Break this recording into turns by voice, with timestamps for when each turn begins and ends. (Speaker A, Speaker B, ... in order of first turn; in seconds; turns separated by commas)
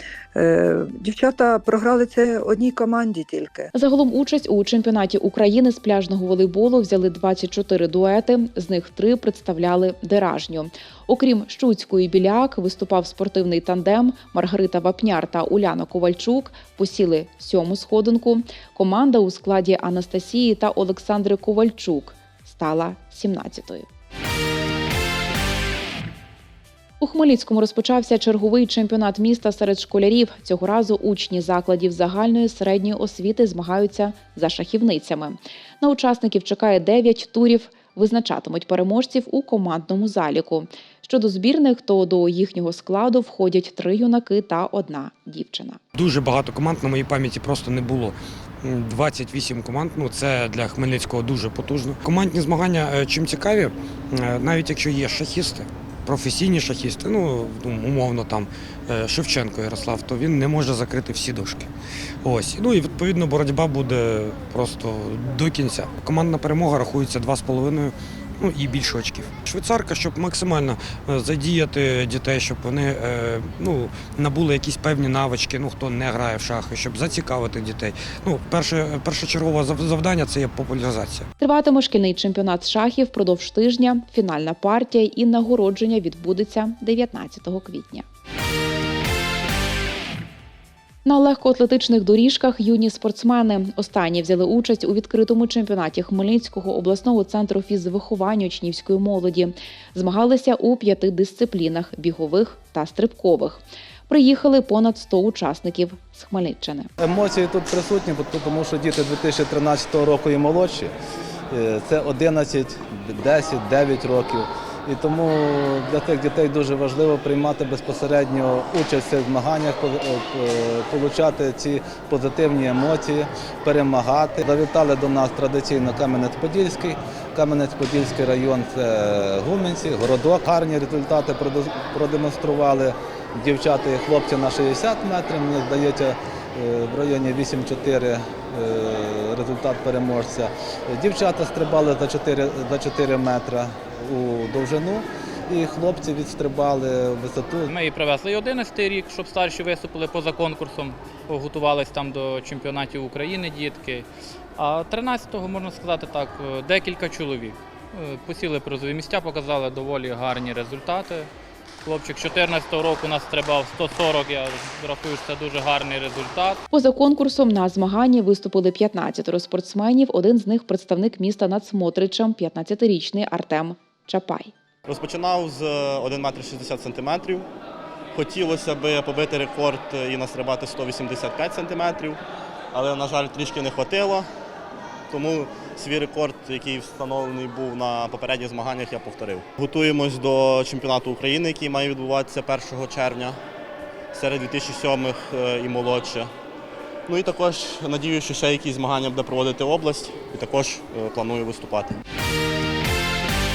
Speaker A: 0.3-3.7, Speaker B: 3.7-23.9, Speaker B: 27.0-45.8, Speaker C: 45.9-61.7, Speaker C: 62.2-81.3, Speaker B: 81.4-88.0, Speaker B: 91.0-106.9, Speaker D: 107.0-110.9, Speaker D: 111.5-147.7, Speaker E: 147.7-154.1, Speaker E: 154.6-161.3, Speaker E: 161.8-166.6, Speaker B: 166.7-174.5, Speaker F: 174.8-177.5, Speaker F: 178.1-182.2, Speaker F: 182.7-184.3, Speaker F: 185.1-193.4, Speaker F: 194.1-196.3, Speaker F: 197.1-202.0